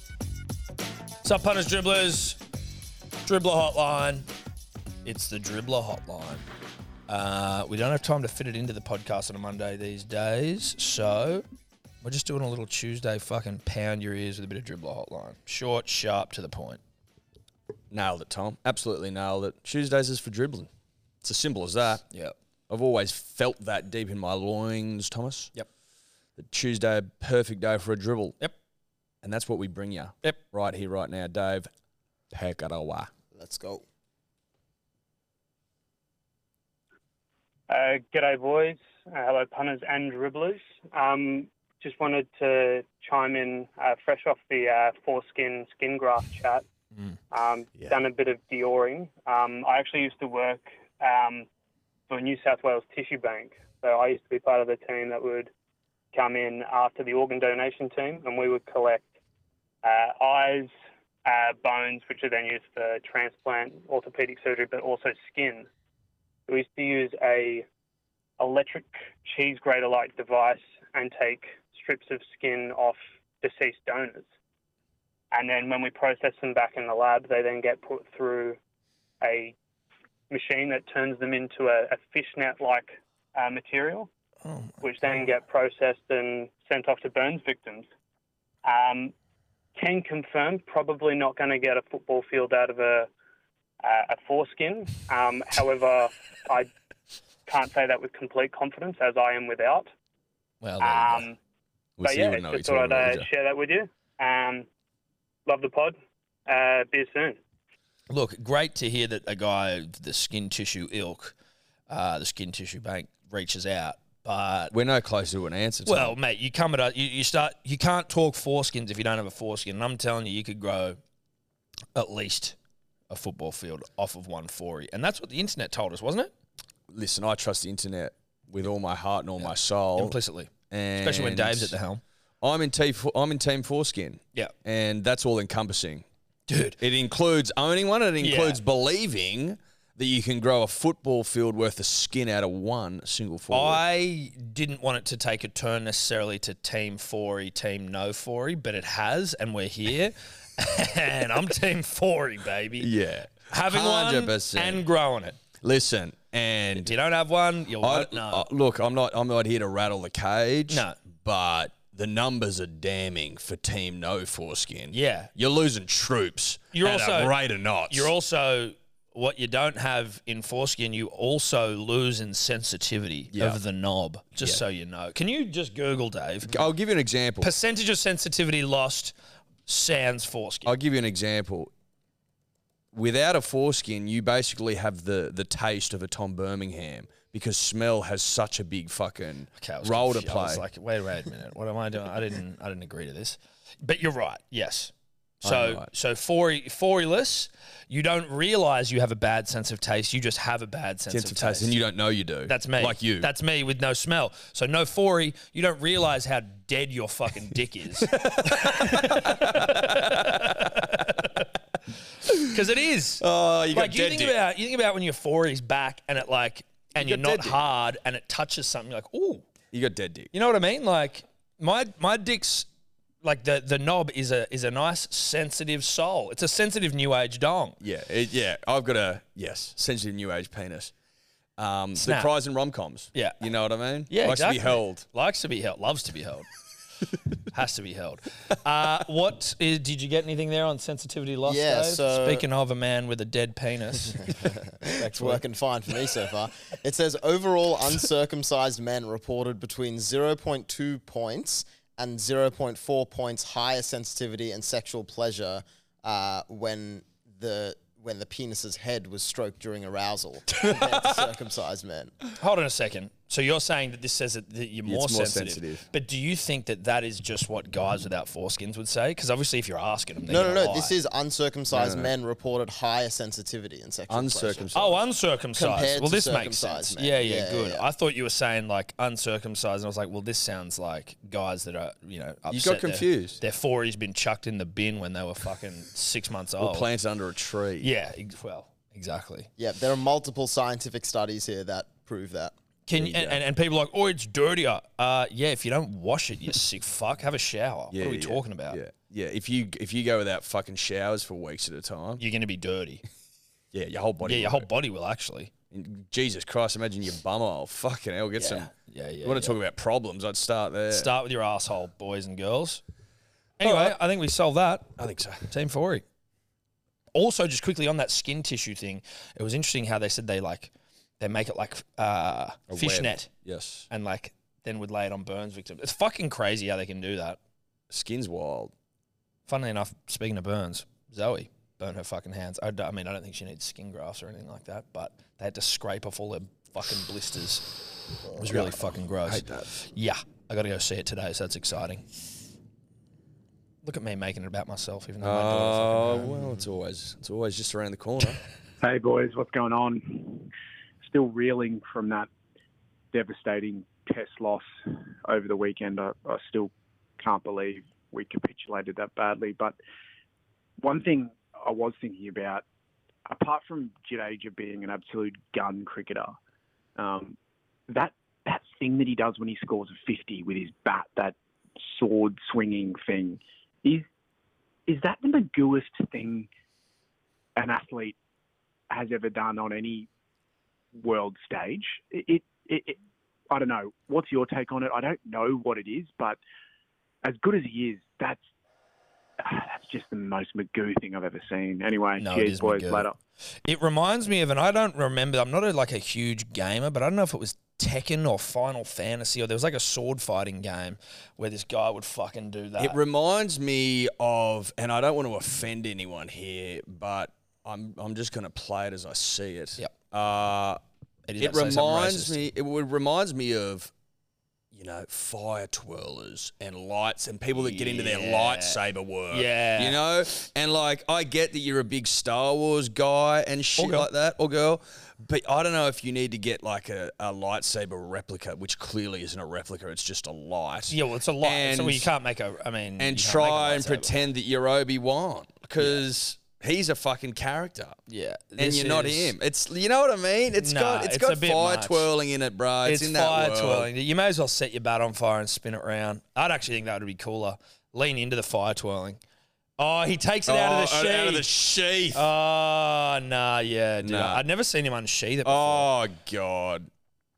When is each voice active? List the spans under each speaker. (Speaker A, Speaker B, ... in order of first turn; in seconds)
Speaker A: 1.2-2.4, 3.2-4.3, 5.0-6.5, 7.1-11.4, 12.0-16.8, 84.5-84.8, 100.6-101.3, 108.1-111.3, 111.9-114.7, 115.9-121.0, 122.0-122.6, 123.1-126.3, 129.4-132.0, 136.5-136.8, 138.2-138.6, 143.5-152.9, 153.4-155.4, 156.8-158.5, 160.7-161.0, 164.9-165.3, 166.7-167.4, 167.9-176.6, 177.4-179.1, 179.7-180.7, 189.6-201.8, 202.5-211.5, 212.4-219.5, 220.3-222.7, 223.2-227.8, 232.0-232.3, 233.1-233.4, 234.1-236.5, 237.5-245.4, 262.4-270.9, 274.7-286.9, 287.8-289.5, 292.9-298.8, 302.2-303.0, 304.2-305.5, 308.4-309.6, 310.9-312.8, 313.6-315.0, 315.5-316.1, 317.1-323.3, 323.9-327.4, 329.5-342.1, 343.8-346.5, 392.2-393.1, 393.6-403.0, 411.3-412.4, 417.5-420.0, 423.8-424.1, 430.9-434.1, 435.8-436.0, 438.1-439.3, 440.6-442.1, 442.8-449.2, 449.8-451.5, 452.1-455.9
Speaker B: 17.9-20.7, 21.2-22.1, 22.7-25.5, 26.4-28.4, 29.2-31.7, 32.3-33.1, 102.0-103.3, 114.7-116.2, 126.9-130.2, 130.7-131.8, 132.4-136.1, 136.8-143.8, 152.8-154.9, 155.6-156.9, 157.8-168.1, 173.3-173.6, 176.5-177.5, 180.7-181.7, 182.9-190.6, 195.4-195.9, 201.1-203.3, 208.2-210.8, 213.2-214.4, 217.0-217.6, 219.7-220.3, 227.8-230.9, 231.6-235.1, 264.9-265.9, 271.7-272.1, 274.1-275.0, 282.5-283.4, 286.6-287.9, 292.9-293.4, 297.9-302.2, 303.7-304.7, 305.7-311.1, 313.6-314.0, 315.0-315.5, 322.7-323.9, 327.9-328.7, 338.3-339.7, 345.2-348.4, 402.8-410.8, 411.4-413.9, 414.7-432.1, 433.0-438.0, 438.6-443.9, 450.5-452.3, 454.0-454.4, 455.4-456.9
Speaker C: 33.3-33.9, 241.5-242.5, 244.1-262.1, 270.3-274.7, 275.6-277.9, 289.6-292.5
Speaker D: 37.7-46.6, 47.3-51.5, 52.1-55.5, 56.1-59.1, 59.8-60.7, 61.2-65.7, 66.5-67.7, 68.4-74.3, 75.3-78.6, 79.2-79.5, 80.3-84.1, 84.8-87.9, 88.7-89.1, 89.8-93.1, 93.8-96.7, 97.5-99.9, 100.8-101.4, 102.0-104.7, 105.5-107.4
Speaker E: 348.8-350.5, 351.0-352.3, 353.1-359.8, 360.8-362.6, 363.3-366.4, 367.0-367.4, 367.9-374.1, 374.9-376.5, 377.6-378.2, 378.9-380.1, 380.9-386.4, 387.2-388.4, 389.4-393.2